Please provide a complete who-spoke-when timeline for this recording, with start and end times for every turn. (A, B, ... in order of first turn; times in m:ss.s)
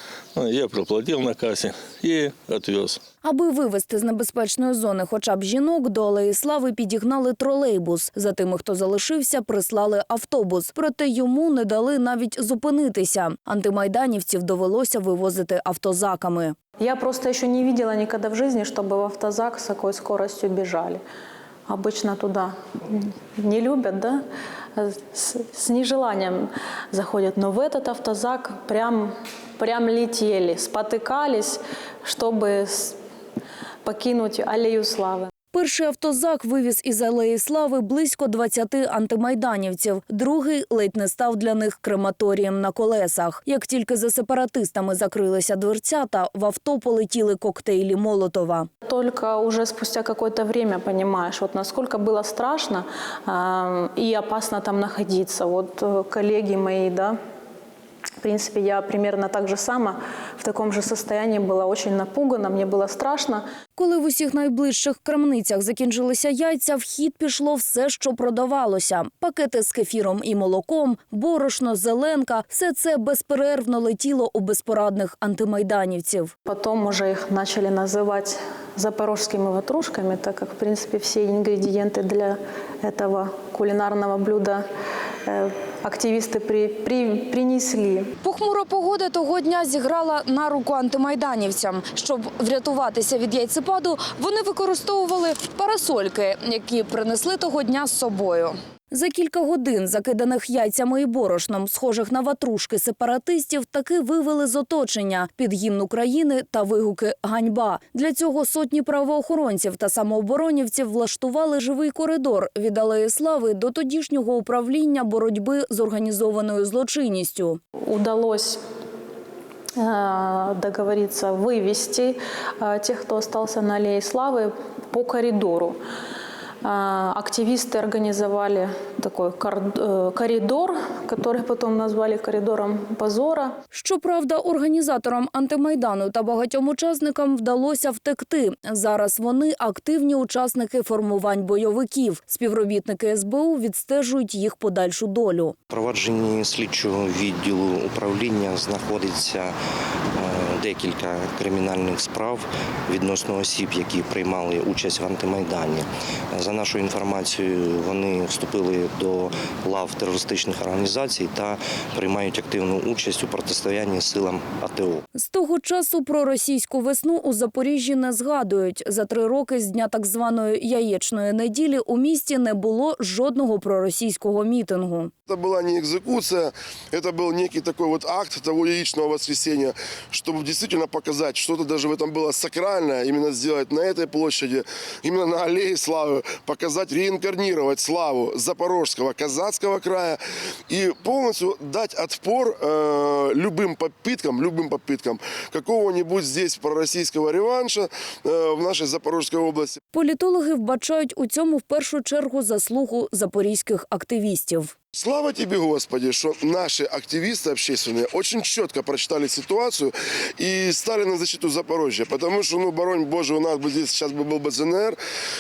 0:00.4-0:03.0 A
0:03.2-0:16.6 B
0:16.8-0:21.0 C
0:21.7-0:24.2 C
0:24.8-0:33.0 C
0:33.8-0:35.3 C
0:35.5-0:48.7 B
0:48.9-0:57.2 C
0:58.2-1:03.4 C
1:03.8-1:16.3 B
1:16.5-1:24.6 C
1:25.3-1:28.1 C
1:28.2-1:57.6 B
1:57.9-1:58.6 C
1:59.8-2:05.8 C
2:06.6-2:13.6 C
2:13.7-2:25.6 B
2:25.7-2:29.6 D
2:30.2-2:45.0 D
2:45.2-2:55.1 B
2:55.3-3:19.8 E
3:19.9-3:24.7 B
3:24.9-3:35.0 E